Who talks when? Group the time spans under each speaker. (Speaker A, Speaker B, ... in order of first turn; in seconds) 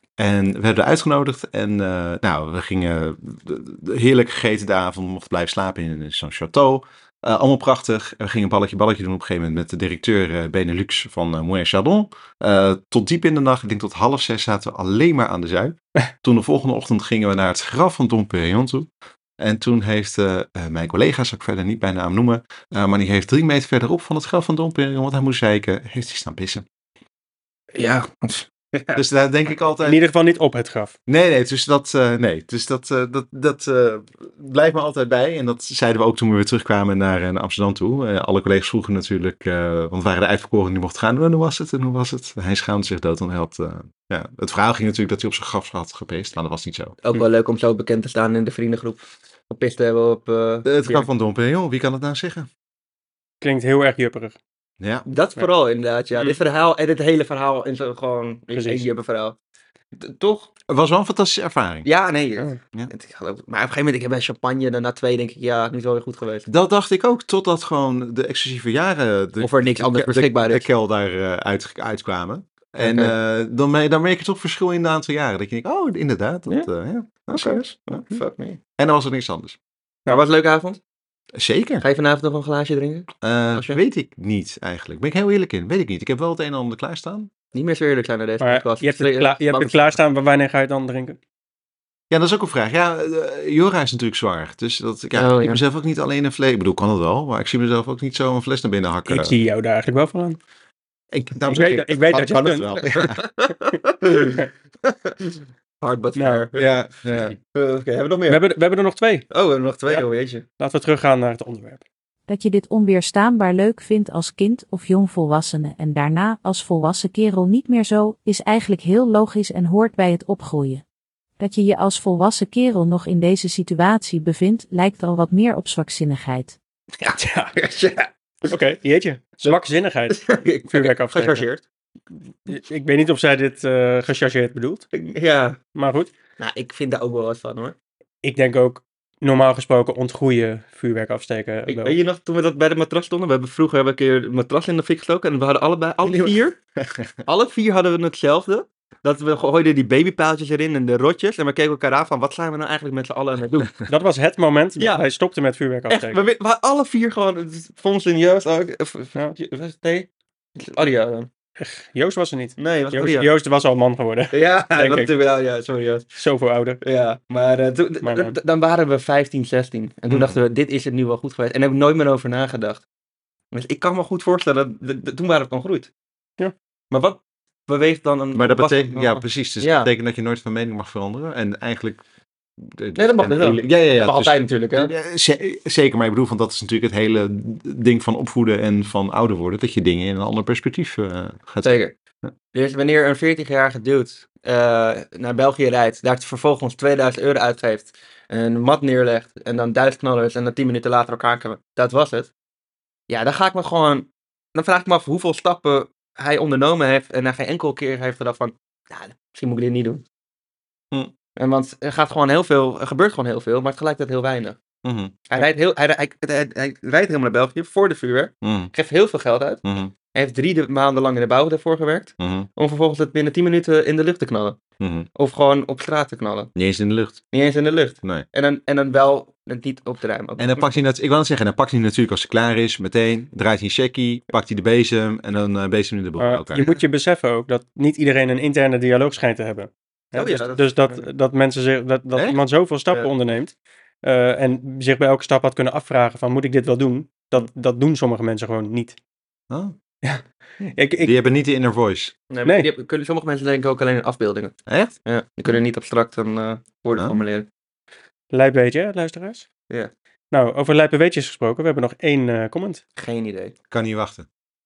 Speaker A: 0.2-26.6, 28.9-30.0, 31.1-47.0, 50.6-52.5, 54.8-55.0, 60.7-61.9, 66.5-78.2, 78.8-79.6, 81.3-81.8, 83.2-87.3, 92.1-99.3, 101.1-103.2, 106.5-107.3, 146.0-147.1, 170.1-170.4, 178.3-182.0, 182.6-191.8, 214.8-215.2, 218.4-218.7, 219.6-219.9, 222.2-222.5, 224.8-225.1, 226.5-227.2, 230.4-236.6, 249.5-249.7, 251.0-252.1, 254.7-254.9, 256.9-257.2, 263.7-264.2
Speaker B: 27.7-29.0, 47.0-51.1, 55.1-59.4, 59.9-60.5, 61.8-66.5, 69.4-70.7, 72.8-73.1, 77.3-78.6, 80.1-80.8, 81.8-83.8, 87.5-89.9, 95.1-95.6, 102.9-105.1, 105.8-106.7, 107.5-108.4, 109.3-110.4, 127.0-128.5, 130.1-131.6, 134.9-135.6, 136.4-137.7, 141.7-146.6, 147.2-153.8, 155.9-161.3, 162.6-163.3, 164.3-166.1, 166.8-172.8, 173.5-175.9, 176.9-179.9, 182.9-184.9, 191.6-191.9, 192.5-202.3, 203.1-210.0, 211.3-214.6, 215.3-224.6, 225.1-226.5, 227.3-230.7, 240.1-241.0, 252.3-257.5, 263.0-263.5
Speaker C: 29.8-30.9, 53.4-54.4, 58.5-58.8, 88.4-91.2, 99.1-100.4, 101.5-102.7, 106.2-106.4, 108.3-109.3, 110.6-111.8, 127.2-127.5, 128.5-131.4, 132.5-134.8, 135.7-136.1, 138.2-142.0, 153.9-156.2, 161.6-165.1, 166.2-166.8, 168.0-168.4, 236.2-249.0, 250.0-251.1, 258.3-259.4, 260.3-262.8
Speaker D: 112.3-120.8, 121.4-126.5